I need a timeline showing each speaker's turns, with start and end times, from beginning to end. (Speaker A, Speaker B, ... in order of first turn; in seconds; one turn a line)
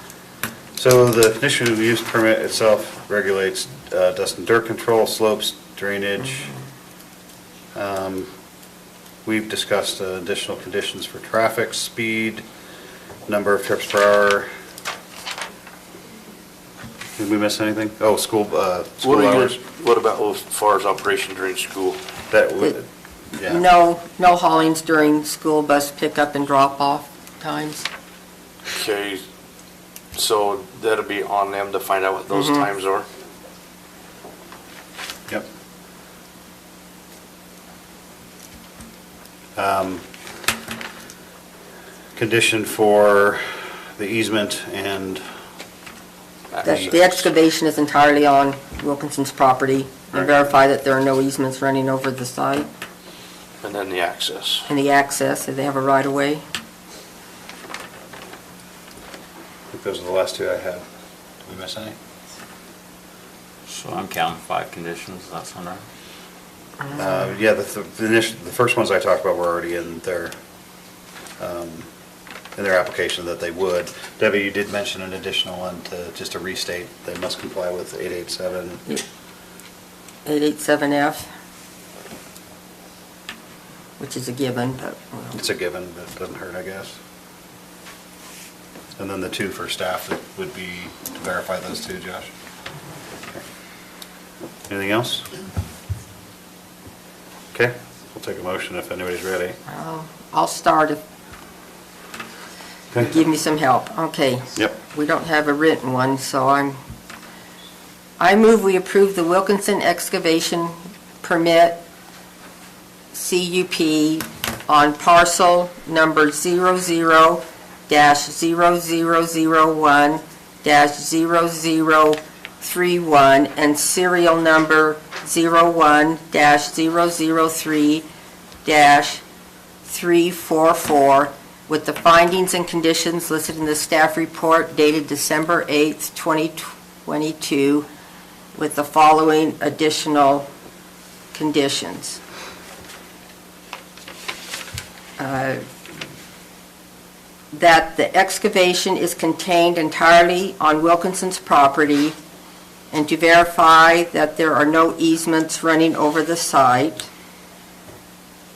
Speaker A: 0.8-6.5
Speaker A: 7.7-8.3
Speaker A: 9.2-12.4
Speaker A: 13.3-14.5
Speaker A: 17.2-19.6
Speaker B: 19.0-22.0
Speaker A: 22.3-22.9
Speaker A: 23.4-23.6
Speaker C: 23.5-27.9
Speaker B: 28.7-29.2
Speaker B: 30.1-33.1
Speaker C: 32.3-32.7
Speaker A: 39.6-40.1
Speaker A: 42.2-45.3
Speaker B: 46.5-47.3
Speaker A: 46.6-47.0
Speaker C: 46.6-52.7
Speaker B: 53.6-54.7
Speaker C: 54.7-56.4
Speaker A: 59.7-60.8
Speaker A: 61.5-62.0
Speaker D: 63.7-65.8
Speaker A: 66.9-70.3
Speaker A: 71.4-71.9
Speaker A: 72.5-78.8
Speaker C: 80.3-81.3
Speaker C: 84.0-85.4
Speaker A: 85.3-87.0
Speaker A: 89.0-92.3
Speaker A: 94.7-95.3
Speaker A: 97.5-99.6
Speaker C: 99.7-101.0
Speaker C: 103.0-106.8
Speaker C: 108.2-111.8
Speaker C: 113.1-128.0
Speaker C: 128.7-129.2
Speaker C: 129.8-137.9
Speaker C: 138.6-140.4
Speaker C: 141.3-142.2
Speaker C: 145.2-145.7
Speaker C: 147.5-152.2
Speaker C: 152.9-157.1